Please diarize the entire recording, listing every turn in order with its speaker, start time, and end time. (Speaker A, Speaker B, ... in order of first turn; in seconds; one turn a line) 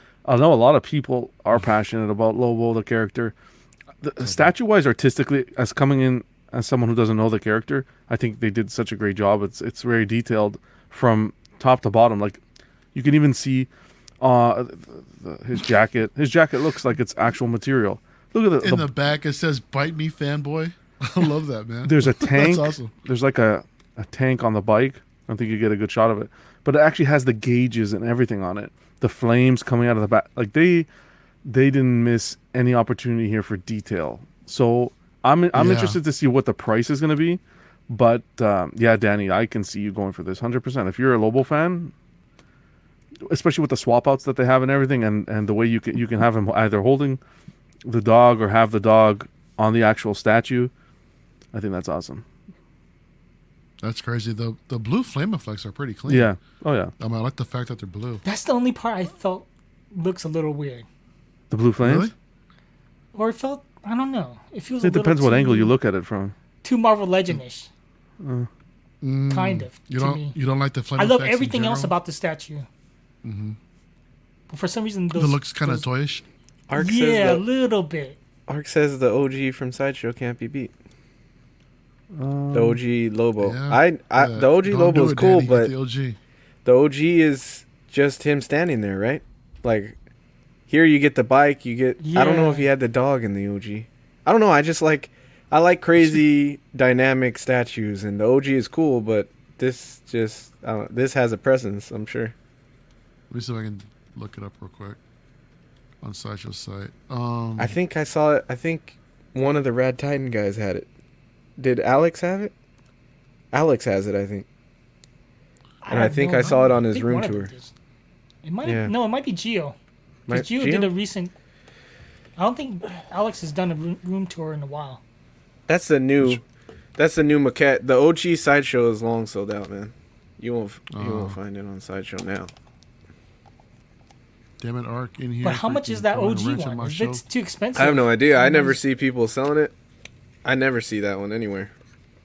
Speaker A: 0.3-3.3
Speaker A: 4.0-12.4
Speaker A: 12.9-13.7
Speaker A: 14.2-18.9
Speaker B: 18.6-22.9
Speaker A: 21.9-30.9
Speaker A: 31.4-41.9
Speaker B: 35.5-36.0
Speaker A: 43.3-47.2
Speaker A: 47.9-50.7
Speaker A: 51.5-52.2
Speaker B: 53.8-56.4
Speaker A: 56.1-56.9
Speaker B: 57.0-58.2
Speaker C: 58.2-60.9
Speaker A: 61.5-62.1
Speaker B: 61.8-62.1
Speaker C: 63.1-65.7
Speaker A: 64.8-66.3
Speaker C: 66.6-67.7
Speaker A: 68.2-68.5
Speaker B: 69.0-71.9
Speaker C: 69.3-70.4
Speaker C: 71.0-72.7
Speaker B: 73.2-73.6
Speaker C: 74.5-75.9
Speaker B: 75.1-76.2
Speaker D: 76.7-77.4
Speaker C: 76.8-78.2
Speaker D: 78.5-80.7
Speaker A: 82.1-82.8
Speaker D: 82.5-85.7
Speaker B: 83.4-86.2
Speaker D: 86.7-90.0
Speaker D: 90.7-102.3
Speaker C: 92.0-92.7
Speaker B: 103.3-105.0
Speaker B: 106.0-107.8
Speaker D: 107.6-110.9
Speaker D: 111.6-112.5
Speaker D: 113.5-114.5
Speaker C: 115.8-117.7
Speaker D: 115.9-117.5
Speaker C: 118.4-119.8
Speaker D: 118.6-118.9
Speaker D: 120.3-120.9
Speaker C: 120.3-121.3
Speaker C: 122.4-125.0
Speaker D: 125.7-126.4
Speaker D: 127.0-132.5
Speaker B: 130.9-131.4
Speaker B: 134.6-137.2
Speaker C: 135.4-138.8
Speaker D: 137.8-139.7
Speaker D: 140.4-141.7